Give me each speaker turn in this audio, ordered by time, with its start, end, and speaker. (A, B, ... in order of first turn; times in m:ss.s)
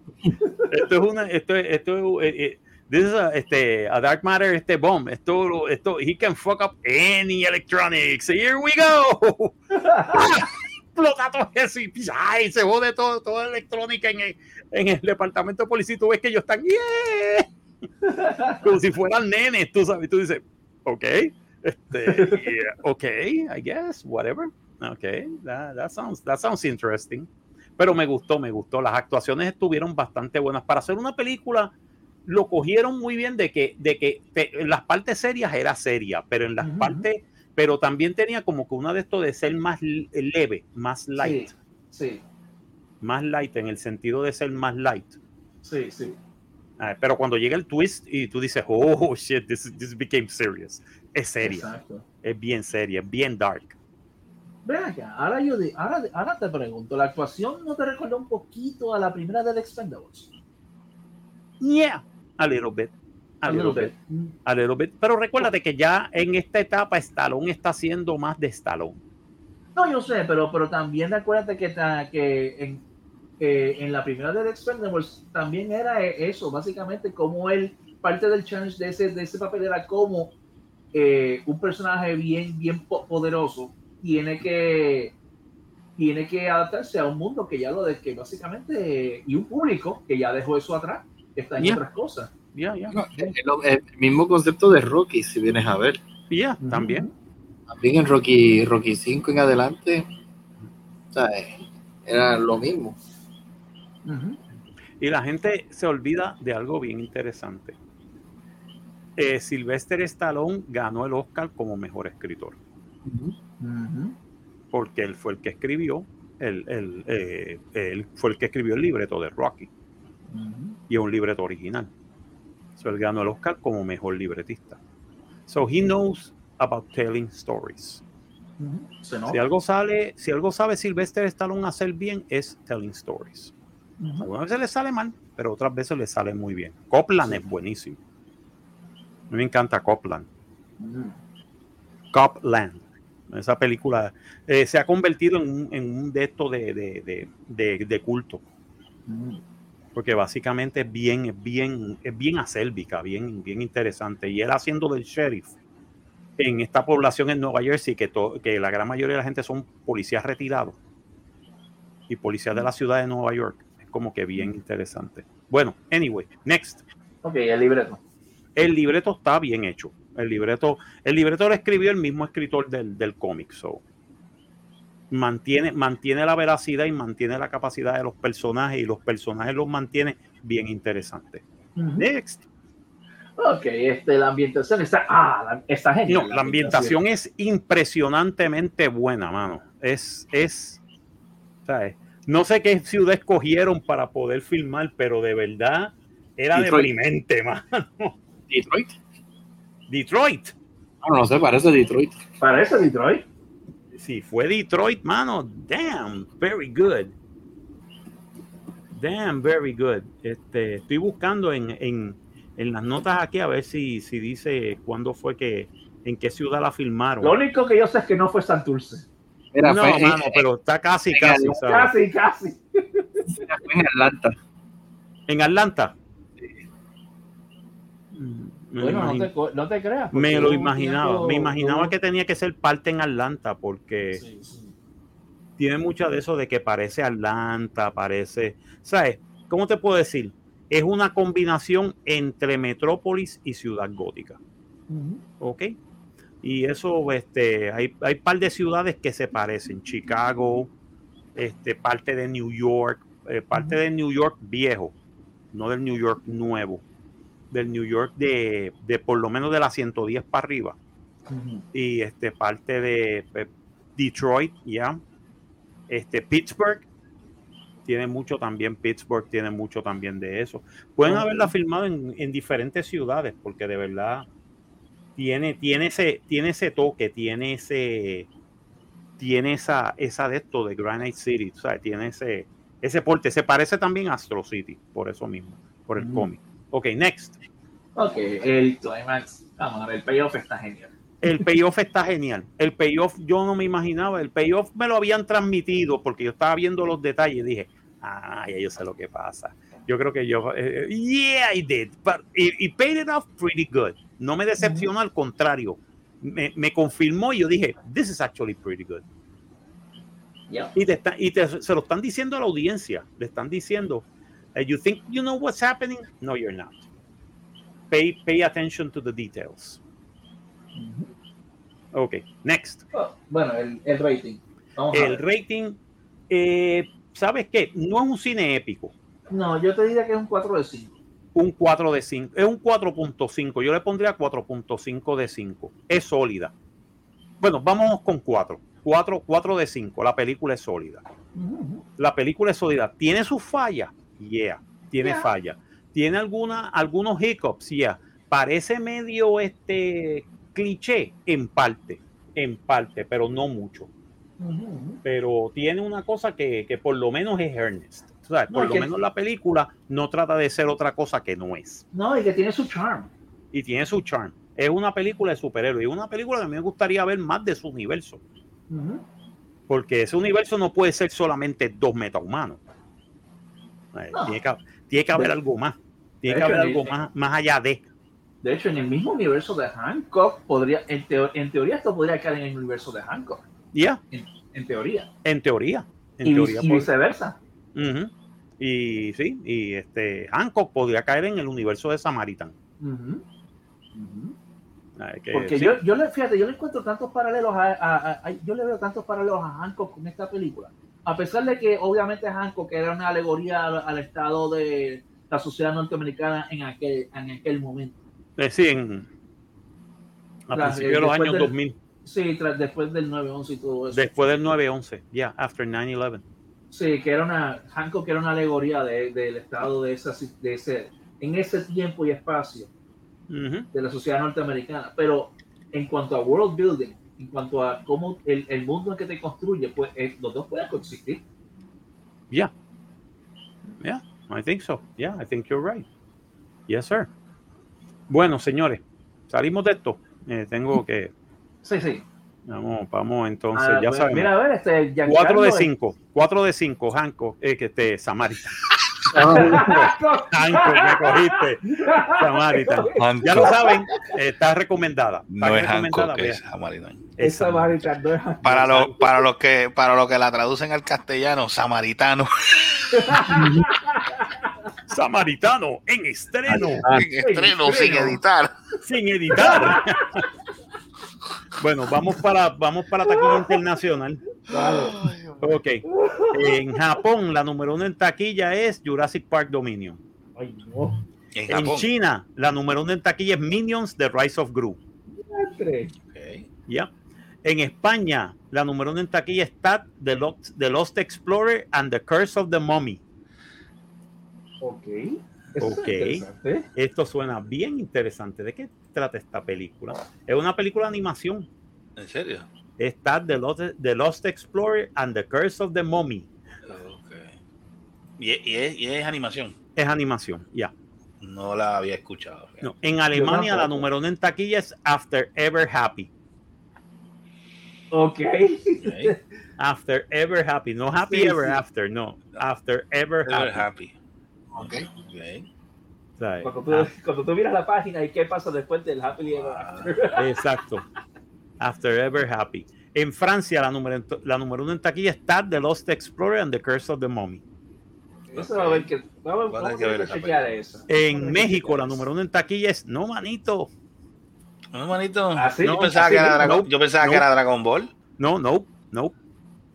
0:00.7-0:09.6 A
0:09.8-0:10.4 B
0:10.1-0:17.5 A
0:18.0-0:18.6 B
0:18.6-0:31.7 A
0:22.1-0:22.5 B
0:32.2-0:41.5 A
0:36.6-0:37.1 B
0:41.2-0:42.2 B
0:43.0-0:45.2 A
0:45.6-0:46.2 B
0:46.8-0:51.7 A
0:51.4-0:52.0 B
0:52.2-0:53.7 A
0:54.6-1:00.3 B
1:01.6-1:03.9 A
1:03.4-1:04.3 B
1:04.4-1:09.0 A
1:09.7-1:12.8 B
1:13.4-1:20.3 B
1:20.9-1:25.1 B
1:26.0-1:32.3 B
1:32.5-1:33.3 A
1:32.9-1:36.0 C
1:36.3-1:37.1 A
1:36.6-1:37.1 B
1:37.7-1:40.0 C
1:41.1-1:43.0 C
1:44.0-1:44.4 B
1:45.0-1:47.8 A
1:49.2-1:52.6 A
1:53.0-1:53.4 C
1:53.6-1:54.2 B
1:54.7-1:59.7 A
2:00.3-2:00.8 B
2:00.9-2:01.9 A
2:02.8-2:04.8 A
2:05.5-2:08.0 A
2:08.6-2:09.4 B
2:09.3-2:13.5 A
2:14.0-2:14.3 B
2:14.2-2:18.0 A
2:19.3-2:20.3 A
2:20.8-2:21.1 B
2:22.1-2:28.4 A
2:29.1-2:29.4 B
2:29.9-2:35.5 A
2:36.4-2:40.8 A
2:42.1-2:46.8 A
2:47.2-2:48.0 B
2:48.6-2:53.8 A
2:55.1-3:01.4 A
3:01.8-3:02.0 B
3:02.0-3:02.4 A
3:03.4-3:07.0 B
3:06.1-3:10.8 A
3:11.6-3:18.1 A
3:16.5-3:16.9 C
3:18.5-3:18.9 C
3:19.9-3:20.5 A
3:21.0-3:22.2 C
3:22.4-3:23.2 B
3:23.9-3:27.1 A
3:28.9-3:37.4 A
3:37.2-3:39.0 B
3:39.5-3:40.4 C
3:39.6-3:41.9 A
3:41.1-3:41.6 C
3:41.6-3:43.3 B
3:43.3-3:44.4 C
3:45.3-3:45.9 A
3:48.1-3:49.3 A
3:48.8-3:51.9 B
3:50.1-3:54.2 A
3:54.2-3:54.7 B
3:55.6-4:04.4 A
4:04.9-4:05.2 B
4:05.4-4:05.7 A
4:06.4-4:10.7 A
4:11.4-4:14.9 A
4:15.5-4:16.8 A
4:17.5-4:20.8 A
4:21.3-4:21.6 B
4:21.7-4:25.0 A
4:25.9-4:26.8 A
4:27.8-4:34.3 A
4:31.0-4:31.5 B
4:35.2-4:38.3 A
4:39.2-4:47.4 A
4:46.0-4:46.3 B
4:48.0-4:50.9 B
4:51.2-5:09.0 A
5:04.6-5:04.9 B
5:10.5-5:10.7 B
5:10.7-5:14.0 A
5:14.5-5:16.8 A
5:17.9-5:19.8 A
5:20.7-5:21.1 B
5:21.9-5:22.8 A
5:22.9-5:25.2 B
5:24.9-5:25.8 A
5:26.3-5:28.9 A
5:29.3-5:30.9 B
5:31.3-5:36.5 A
5:37.4-5:41.0 A
5:41.3-5:41.8 B
5:42.0-5:53.9 A
5:45.0-5:45.3 B
5:54.4-5:55.0 B
5:55.0-6:01.8 A
5:58.5-5:58.9 B
6:01.9-6:03.1 B
6:03.5-6:08.2 A
6:08.7-6:09.0 B
6:09.7-6:12.6 A
6:13.9-6:17.8 A
6:16.3-6:16.9 B
6:18.4-6:23.4 B
6:23.7-6:24.0 A
6:24.1-6:25.1 B
6:25.2-6:26.9 A
6:26.2-6:27.4 B
6:27.7-6:32.5 A
6:32.8-6:33.2 B
6:33.9-6:34.3 B
6:35.0-6:35.8 A
6:35.3-6:48.0 B
6:48.4-6:49.1 A
6:50.5-6:51.8 A
6:50.5-6:51.5 B
6:52.0-6:54.1 B
6:53.9-6:56.2 A
6:56.7-7:02.7 B
7:03.3-7:03.7 A
7:03.7-7:11.2 B
7:13.8-7:15.8 A
7:16.7-7:17.1 A
7:18.1-7:21.1 A
7:21.6-7:22.0 B
7:22.5-7:24.3 A
7:23.5-7:25.7 B
7:25.0-7:28.6 A
7:29.1-7:29.9 C
7:29.1-7:33.8 B
7:29.3-7:36.4 A
7:33.0-7:33.6 D
7:35.3-7:37.1 D
7:37.2-7:37.8 A
7:37.2-7:38.5 B
7:38.4-7:39.1 A
7:38.4-7:43.4 D
7:42.9-7:44.5 B
7:43.3-7:43.6 C
7:44.9-7:46.9 A
7:46.5-7:48.5 D
7:46.8-7:48.2 B
7:48.8-7:50.2 A
7:49.3-7:50.2 B
7:51.6-7:54.2 A
7:54.5-7:55.1 B
7:54.5-7:55.4 D
7:55.4-8:00.0 A
7:55.8-7:56.8 B
8:00.4-8:01.0 B
8:01.3-8:01.9 D
8:01.5-8:04.8 A
8:05.1-8:05.9 B
8:06.0-8:06.5 D
8:07.4-8:13.0 A
8:14.6-8:16.6 B
8:15.6-8:21.5 A
8:22.0-8:22.4 D
8:22.8-8:26.3 A
8:26.6-8:27.4 D
8:28.2-8:29.5 D
8:29.8-8:30.7 A
8:31.2-8:32.7 D
8:32.6-8:36.1 A
8:33.1-8:33.9 B
8:37.9-8:39.2 B
8:38.8-8:39.1 D
8:39.6-8:43.7 A
8:41.1-8:41.6 B
8:43.3-8:43.9 D
8:44.5-8:44.9 C
8:44.6-8:45.4 D
8:46.2-8:46.9 A
8:46.4-8:50.4 B
8:49.4-8:49.9 D
8:50.2-8:50.8 A
8:51.6-8:57.4 A
8:58.3-9:02.0 B
8:58.3-8:58.9 D
8:59.5-9:00.4 D
9:00.9-9:03.7 A
9:04.7-9:07.9 D
9:05.4-9:06.5 B
9:05.6-9:07.2 A
9:08.2-9:09.1 A